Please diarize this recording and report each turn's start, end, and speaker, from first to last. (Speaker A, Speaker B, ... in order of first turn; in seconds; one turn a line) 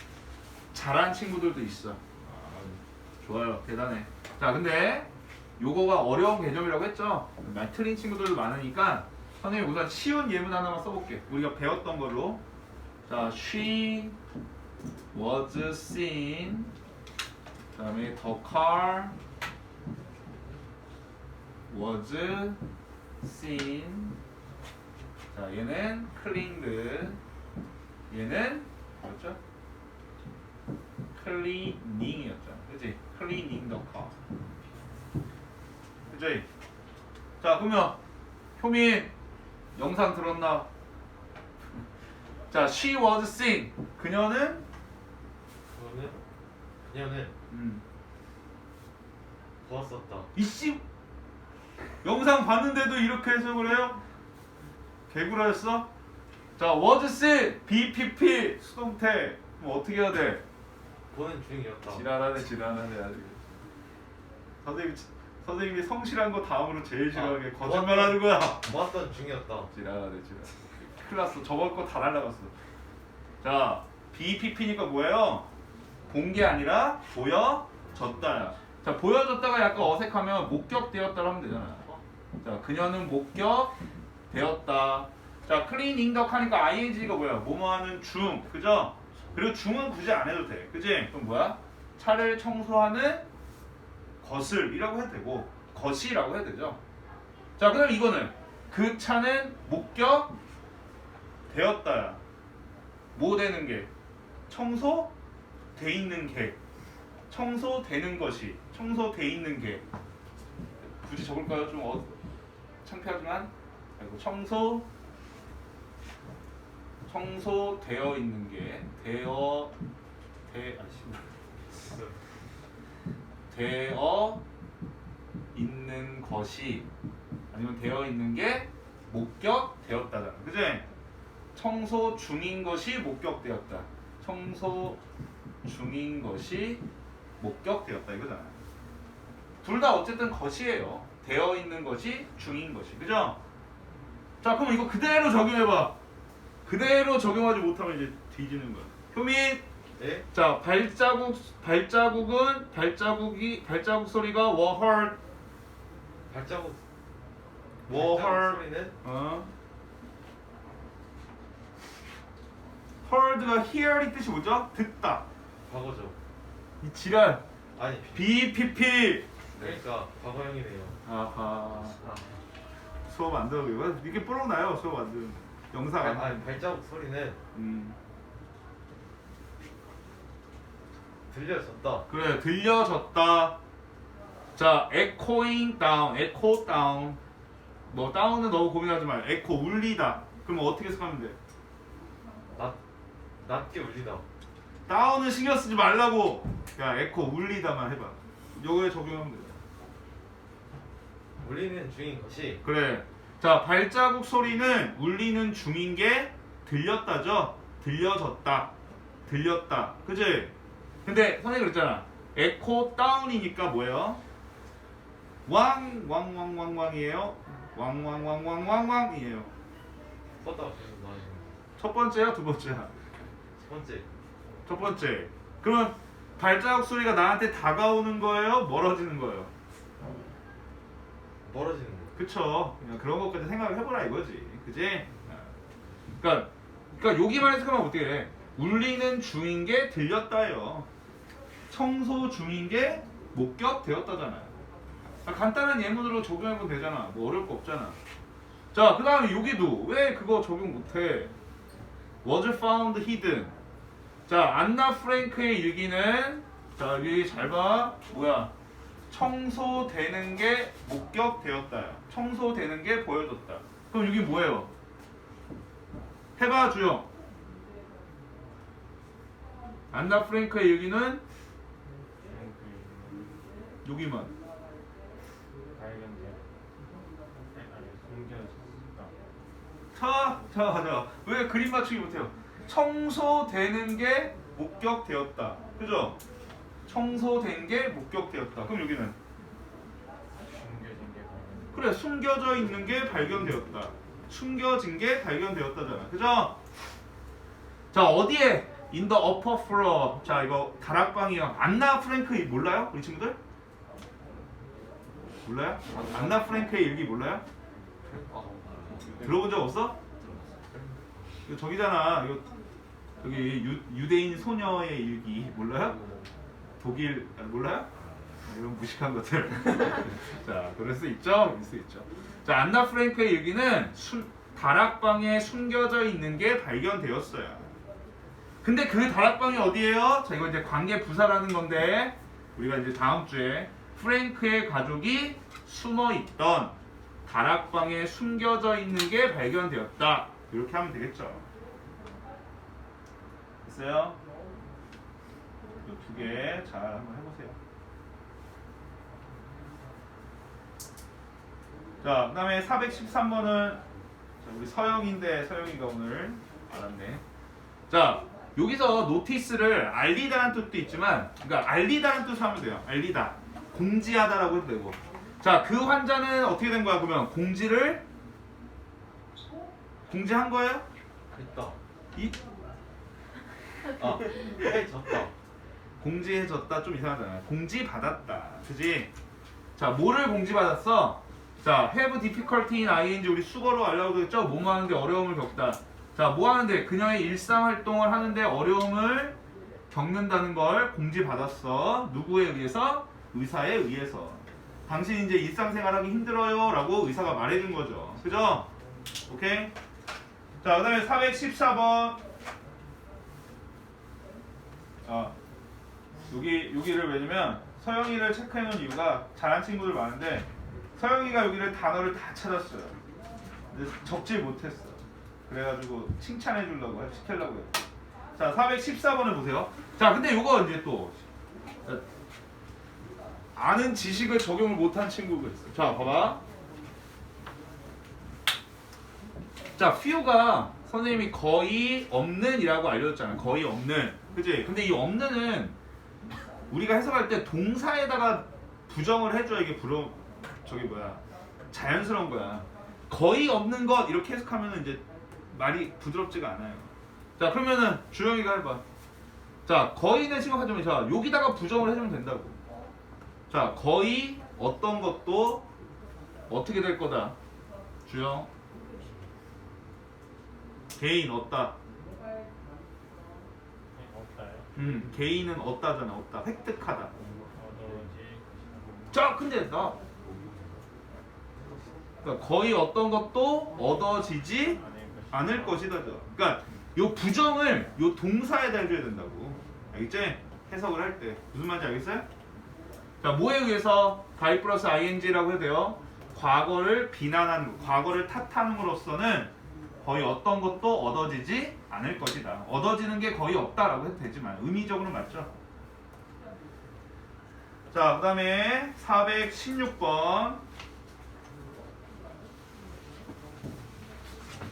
Speaker A: 0.7-12.4
Speaker A: 13.1-14.2
Speaker A: 15.1-16.7
Speaker A: 17.7-19.1
Speaker A: 21.7-22.6
Speaker A: 23.2-24.2
Speaker A: 25.3-27.2
Speaker A: 28.1-29.4
Speaker A: 31.1-34.1
Speaker A: 36.1-36.5
Speaker A: 37.4-38.0
Speaker A: 38.6-39.1
Speaker A: 39.8-40.7
Speaker A: 42.5-44.6
Speaker B: 45.7-46.2
Speaker B: 46.9-47.3
Speaker A: 47.5-47.8
Speaker B: 49.6-50.3
Speaker A: 50.3-50.8
Speaker A: 52.0-54.0
Speaker A: 55.1-55.9
Speaker A: 56.6-60.4
Speaker B: 61.1-62.1
Speaker A: 61.9-63.4
Speaker A: 64.6-68.7
Speaker B: 67.1-69.7
Speaker A: 69.7-72.5
Speaker A: 73.4-75.5
Speaker A: 76.1-83.7
Speaker A: 84.3-93.3
Speaker A: 94.2-96.8
Speaker A: 97.6-100.3
Speaker A: 101.5-102.2
Speaker A: 103.1-103.9
Speaker A: 104.5-105.1
Speaker A: 105.7-106.6
Speaker A: 107.3-109.8
Speaker A: 110.8-112.2
Speaker A: 112.8-114.9
Speaker A: 117.0-119.7
Speaker A: 120.5-121.3
Speaker B: 121.8-122.1
Speaker A: 123.5-124.4
Speaker A: 125.5-126.9
Speaker A: 127.5-130.9
Speaker A: 131.5-135.0
Speaker A: 135.6-136.8
Speaker A: 137.4-138.6
Speaker A: 139.6-143.4
Speaker A: 144.4-146.0
Speaker A: 146.6-149.6
Speaker B: 150.0-150.2
Speaker A: 150.3-155.2
Speaker B: 156.3-156.8
Speaker B: 157.8-158.9
Speaker A: 157.9-159.5
Speaker A: 163.0-165.3
Speaker B: 165.7-166.2
Speaker A: 166.8-167.4
Speaker B: 167.8-168.3
Speaker A: 168.1-169.8
Speaker B: 169.6-171.0
Speaker A: 171.0-172.0
Speaker B: 172.0-172.4
Speaker A: 173.1-176.6
Speaker B: 176.0-177.4
Speaker A: 177.5-178.0
Speaker B: 181.3-182.1
Speaker A: 182.1-183.6
Speaker A: 184.6-187.2
Speaker A: 187.9-191.4
Speaker B: 193.4-194.2
Speaker A: 194.9-199.6
Speaker B: 201.4-202.6
Speaker A: 202.6-210.5
Speaker A: 211.0-214.2
Speaker A: 215.4-219.5
Speaker B: 220.4-221.6
Speaker A: 221.8-222.9
Speaker B: 223.6-224.1
Speaker A: 224.7-229.5
Speaker B: 231.4-232.2
Speaker A: 232.2-235.5
Speaker A: 236.2-240.9
Speaker A: 241.7-244.6
Speaker A: 245.2-248.0
Speaker A: 248.7-251.3
Speaker A: 252.2-253.5
Speaker A: 254.3-258.5
Speaker A: 259.1-264.7
Speaker A: 266.4-267.1
Speaker A: 269.9-271.2
Speaker C: 272.2-273.6
Speaker A: 273.8-274.3
Speaker C: 275.7-276.4
Speaker C: 277.5-279.1
Speaker A: 279.9-286.2
Speaker A: 286.9-289.1
Speaker C: 290.4-291.8
Speaker A: 291.7-296.6
Speaker A: 297.9-303.4
Speaker A: 305.4-307.4
Speaker B: 305.9-306.7
Speaker B: 308.0-311.5
Speaker A: 309.2-310.0
Speaker A: 311.4-312.5
Speaker A: 313.2-316.0
Speaker B: 315.9-316.2
Speaker A: 316.8-317.9
Speaker B: 317.9-318.5
Speaker A: 318.4-327.7
Speaker A: 328.6-341.4
Speaker A: 343.6-344.2
Speaker A: 345.8-347.6
Speaker A: 352.0-353.8
Speaker A: 354.4-357.2
Speaker A: 357.9-368.0
Speaker A: 370.1-370.8
Speaker B: 371.3-371.8
Speaker A: 374.0-374.2
Speaker B: 374.0-375.3
Speaker A: 376.0-379.1
Speaker A: 379.8-389.4
Speaker A: 389.9-398.7
Speaker A: 399.3-399.7
Speaker A: 400.6-402.2
Speaker A: 405.0-405.4
Speaker A: 406.3-413.0
Speaker A: 413.7-417.8
Speaker A: 418.3-421.2
Speaker A: 423.6-426.4
Speaker A: 429.8-435.8
Speaker A: 436.7-448.8
Speaker A: 449.6-452.6
Speaker A: 453.5-455.7
Speaker A: 456.5-457.4
Speaker A: 458.1-458.5
Speaker A: 461.0-461.8
Speaker C: 463.9-464.8
Speaker A: 464.7-467.1
Speaker C: 467.1-470.8
Speaker A: 469.1-470.0
Speaker A: 472.2-482.2
Speaker C: 474.5-476.0
Speaker A: 483.2-495.5
Speaker A: 497.9-500.6